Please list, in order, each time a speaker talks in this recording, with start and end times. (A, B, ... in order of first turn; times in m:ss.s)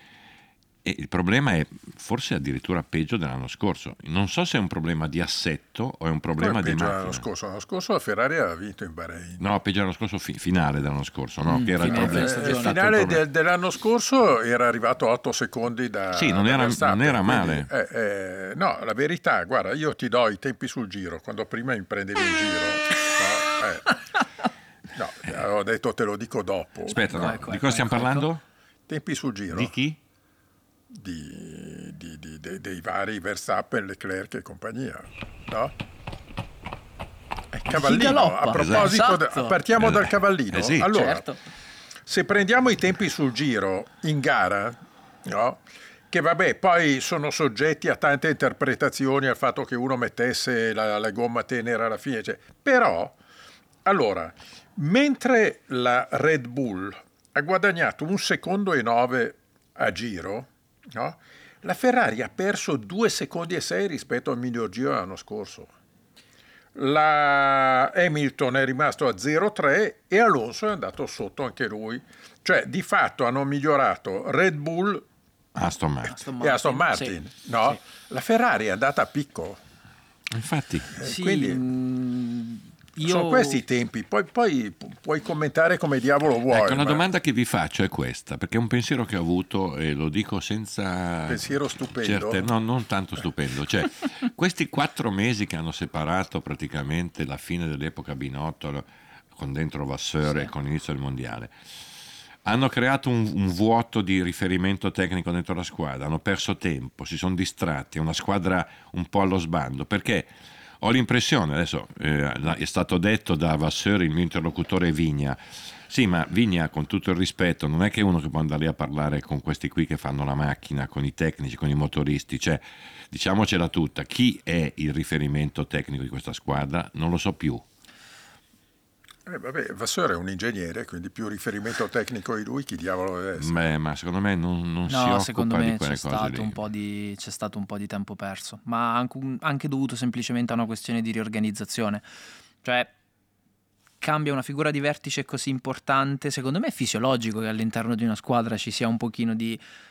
0:00.8-0:07.2 A
0:06.4-0:09.4 B
0:09.4-0:13.2 A
0:11.5-0:12.8 C
0:11.8-0:23.9 B
0:16.1-0:17.7 A
0:24.9-0:27.2 B
0:26.9-0:28.4 A
0:27.1-0:28.3 C
0:28.9-0:29.7 B
0:29.5-0:30.0 A
0:30.9-0:35.7 B
0:37.5-0:41.2 B
0:37.7-0:39.6 C
0:38.6-0:38.9 A
0:39.8-0:40.9 A
0:40.9-0:41.4 C
0:42.1-0:53.2 B
0:53.8-1:05.7 B
1:06.8-1:15.1 B
1:15.6-1:16.2 A
1:16.0-1:17.2 C
1:16.4-1:19.6 B
1:20.3-1:21.0 A
1:21.0-1:21.6 B
1:21.0-1:23.6 C
1:23.0-1:27.0 B
1:26.5-1:41.5 A
1:31.3-1:32.5 B
1:42.4-1:50.3 A
1:50.8-2:07.6 A
2:09.2-2:13.7 B
2:13.4-2:16.6 A
2:14.9-2:22.0 C
2:22.6-2:22.9 C
2:24.0-2:29.6 C